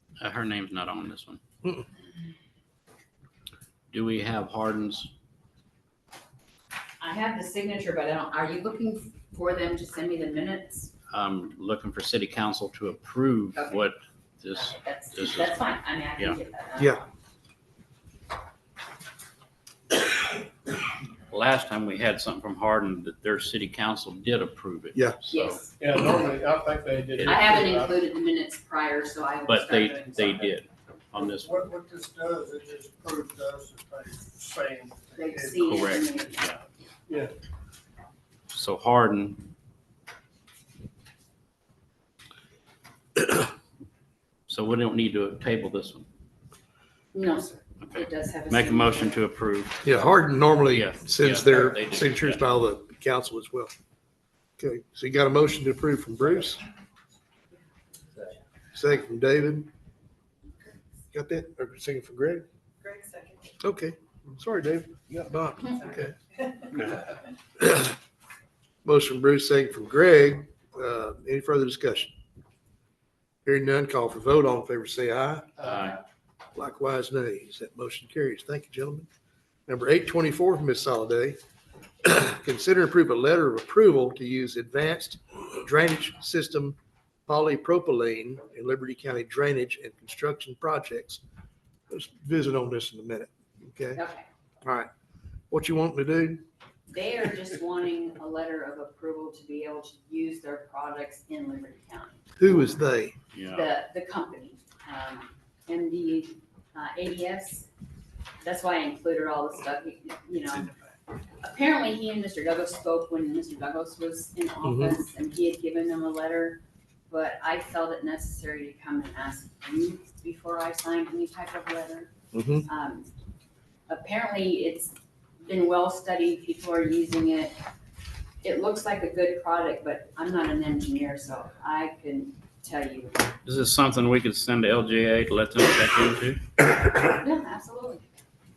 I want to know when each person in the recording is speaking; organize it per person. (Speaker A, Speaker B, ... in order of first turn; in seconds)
Speaker A: 0.2-1.4, 3.9-5.1, 11.1-15.6, 21.3-25.6, 29.5-31.6, 35.6-36.6, 38.5-39.4, 44.5-46.1, 47.8-49.8, 50.7-52.5, 75.6-76.0, 103.3-103.7, 133.4-136.4
Speaker B: 7.0-10.9, 13.6-13.8, 14.6-17.0, 25.3-25.8, 27.2-30.5, 35.2-36.6, 47.1-49.2, 94.0-94.3, 96.9-102.2, 103.5-107.7, 108.4-110.7, 111.4-122.1, 122.7-123.1, 123.9-127.6, 128.4-133.3, 137.0-138.1
Speaker C: 24.9-25.3, 49.8-53.7, 54.6-56.6, 58.8-59.7, 61.1-62.5, 63.6-66.2, 67.6-68.0, 68.8-72.1, 73.5-75.6, 76.5-79.1, 79.7-81.4, 82.0-86.8, 87.3-91.2, 91.9-94.0, 94.6-94.9, 95.5-96.4, 102.4-103.2, 114.6-115.0, 122.3-122.7
Speaker D: 25.8-28.0, 31.4-35.6